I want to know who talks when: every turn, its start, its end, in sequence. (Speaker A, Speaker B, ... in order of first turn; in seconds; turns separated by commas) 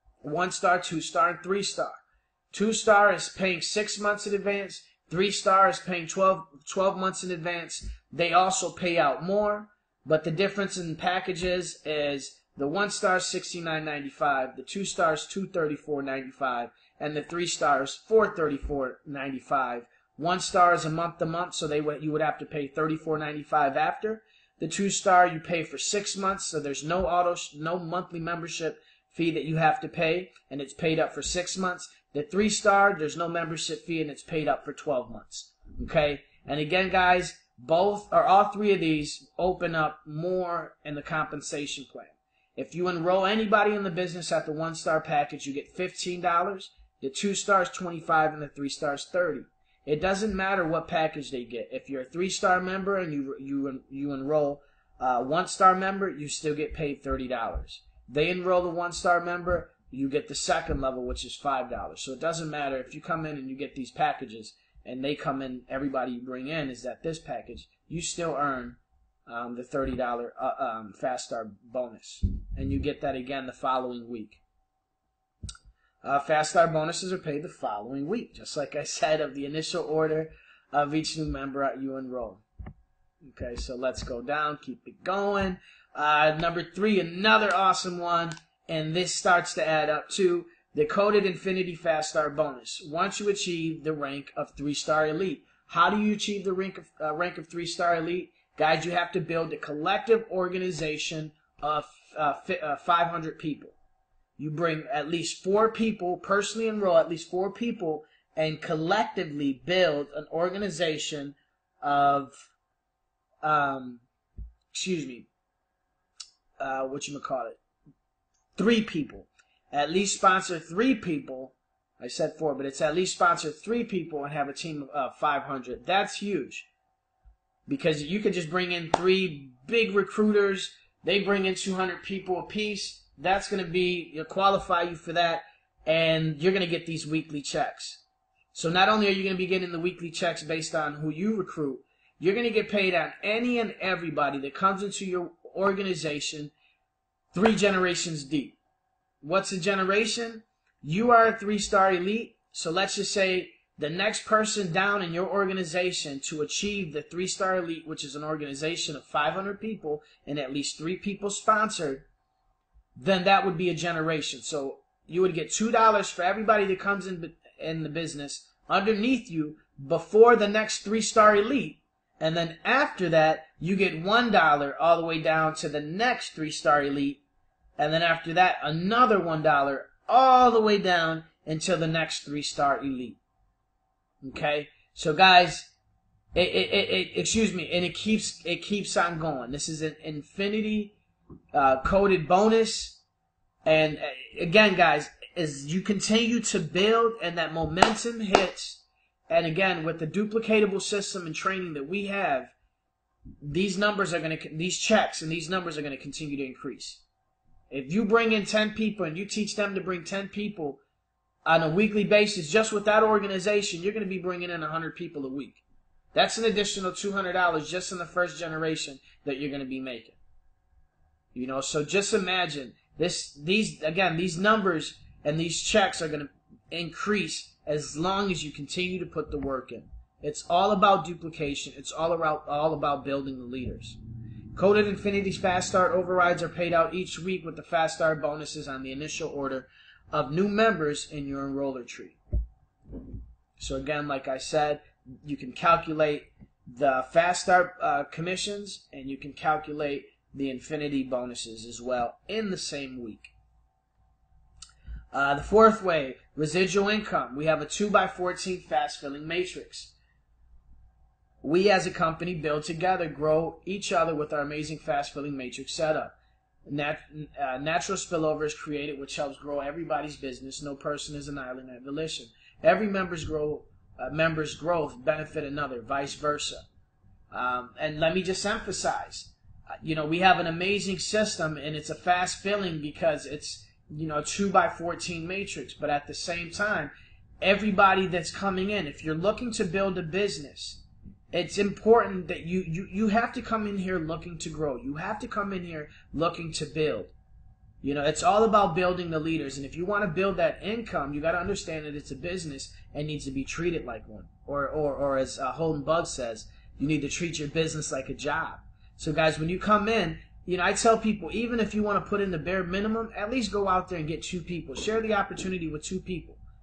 Speaker A: 0.2-74.4, Speaker A: 76.0-82.4, Speaker A: 83.2-103.8, Speaker A: 104.4-112.5, Speaker A: 113.4-114.0, Speaker A: 114.7-115.3, Speaker A: 116.6-117.6, Speaker A: 118.5-126.7, Speaker A: 127.7-146.5, Speaker A: 147.3-148.6, Speaker A: 149.2-162.1, Speaker A: 163.0-177.2, Speaker A: 177.8-183.2, Speaker A: 184.2-185.7, Speaker A: 186.3-191.0, Speaker A: 191.5-193.0, Speaker A: 193.7-202.5, Speaker A: 203.4-207.0, Speaker A: 207.7-210.8, Speaker A: 211.4-215.6, Speaker A: 216.1-220.2, Speaker A: 221.3-234.0, Speaker A: 234.5-242.2, Speaker A: 243.6-253.3, Speaker A: 255.1-259.9, Speaker A: 261.4-266.1, Speaker A: 266.6-276.6, Speaker A: 277.3-297.1, Speaker A: 297.8-316.4